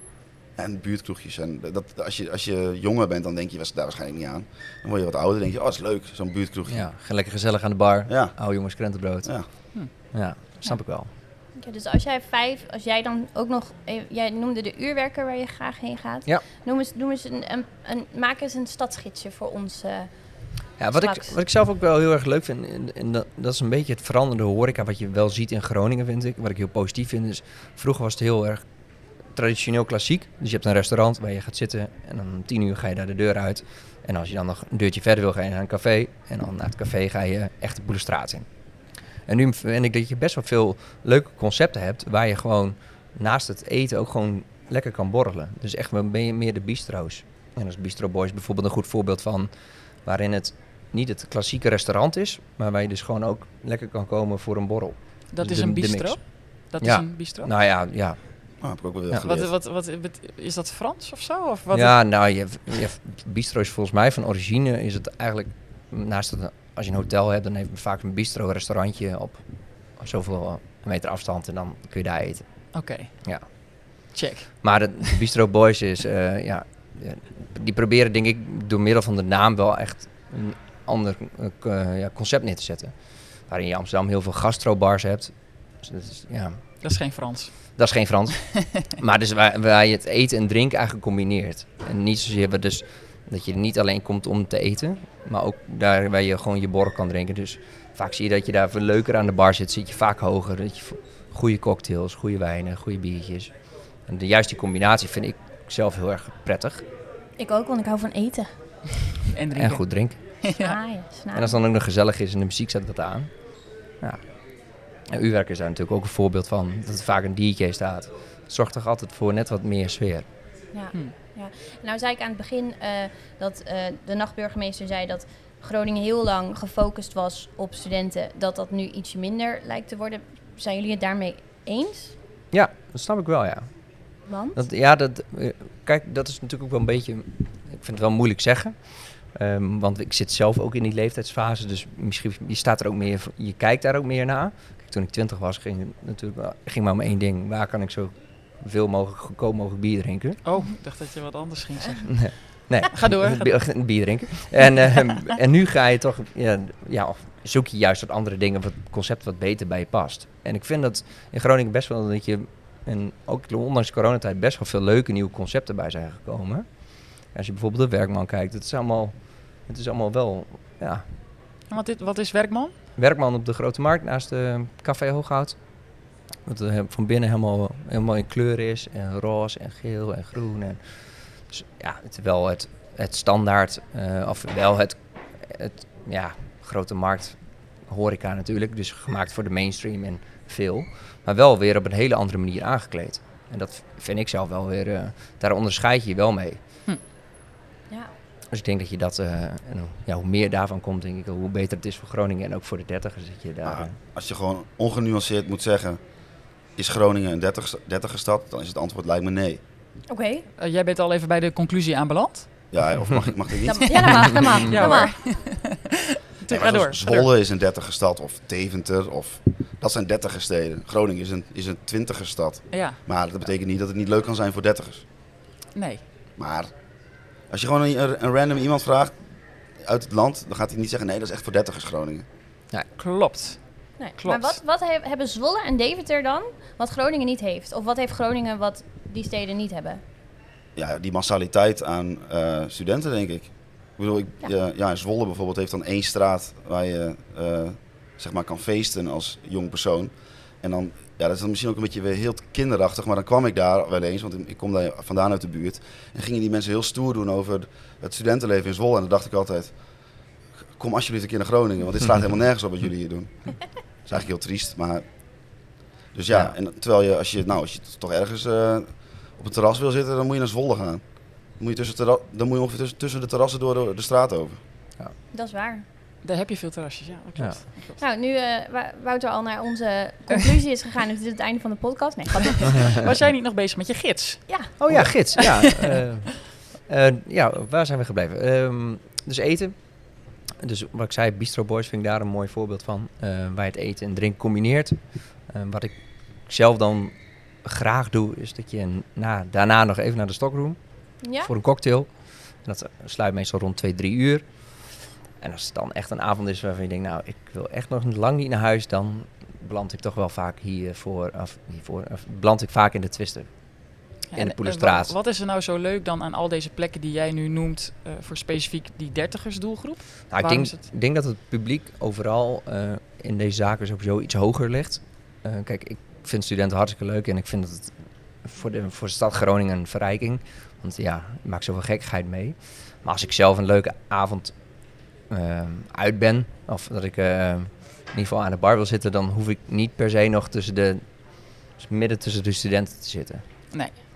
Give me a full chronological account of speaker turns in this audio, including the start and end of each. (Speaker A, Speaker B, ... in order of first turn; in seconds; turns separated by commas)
Speaker A: 0.6-6.9, Speaker B: 6.7-9.4, Speaker A: 8.1-8.4, Speaker B: 10.1-11.1, Speaker C: 11.6-20.1, Speaker B: 20.8-28.6, Speaker C: 21.0-21.4, Speaker B: 29.4-38.5, Speaker B: 39.3-49.5, Speaker B: 50.0-56.2, Speaker D: 55.3-57.5, Speaker B: 56.8-58.2, Speaker A: 58.6-59.5, Speaker D: 59.2-62.0, Speaker B: 61.7-69.4, Speaker B: 70.0-72.4, Speaker D: 72.7-73.1, Speaker D: 74.1-74.5, Speaker B: 74.6-82.9, Speaker B: 83.5-86.6, Speaker D: 86.8-87.5, Speaker B: 87.8-103.5, Speaker B: 104.1-106.8, Speaker C: 107.4-108.5, Speaker D: 109.3-109.8, Speaker B: 109.6-110.2, Speaker D: 110.4-110.8, Speaker C: 110.5-111.5, Speaker B: 111.3-113.3, Speaker B: 115.1-120.2, Speaker C: 120.7-132.1, Speaker B: 132.5-133.7, Speaker C: 134.3-134.6, Speaker B: 134.6-150.4, Speaker D: 150.4-152.3, Speaker B: 152.0-166.7, Speaker D: 152.9-153.5, Speaker B: 167.3-169.1, Speaker B: 169.7-171.1, Speaker D: 171.7-172.7, Speaker B: 173.0-175.6, Speaker B: 176.4-180.8, Speaker B: 181.5-187.4, Speaker B: 187.9-196.6, Speaker B: 198.5-203.9, Speaker A: 203.6-206.0, Speaker A: 206.8-209.6, Speaker C: 210.1-210.4, Speaker D: 210.6-212.5, Speaker A: 212.7-214.5, Speaker C: 213.6-215.2, Speaker D: 214.1-217.3, Speaker A: 216.5-225.0, Speaker D: 222.7-223.0, Speaker D: 225.8-226.0, Speaker A: 226.4-226.7, Speaker A: 227.5-229.2, Speaker A: 229.8-232.3, Speaker D: 232.9-233.6, Speaker C: 234.0-240.0, Speaker D: 234.2-234.6, Speaker A: 240.8-259.7, Speaker A: 260.8-263.5, Speaker A: 264.1-265.1, Speaker A: 266.1-271.0, Speaker A: 271.6-274.6, Speaker C: 275.3-275.8, Speaker D: 276.2-278.0, Speaker C: 278.0-283.0, Speaker D: 282.7-286.0, Speaker B: 284.8-289.7, Speaker B: 290.6-295.0, Speaker B: 295.5-295.9, Speaker B: 296.5-297.1, Speaker B: 297.6-300.8, Speaker C: 301.2-301.5, Speaker B: 301.4-302.1, Speaker B: 302.6-304.4, Speaker B: 305.4-313.5, Speaker D: 314.3-320.8, Speaker B: 314.4-315.1, Speaker B: 320.3-327.9, Speaker B: 328.4-334.5, Speaker B: 335.3-341.0, Speaker B: 341.8-343.4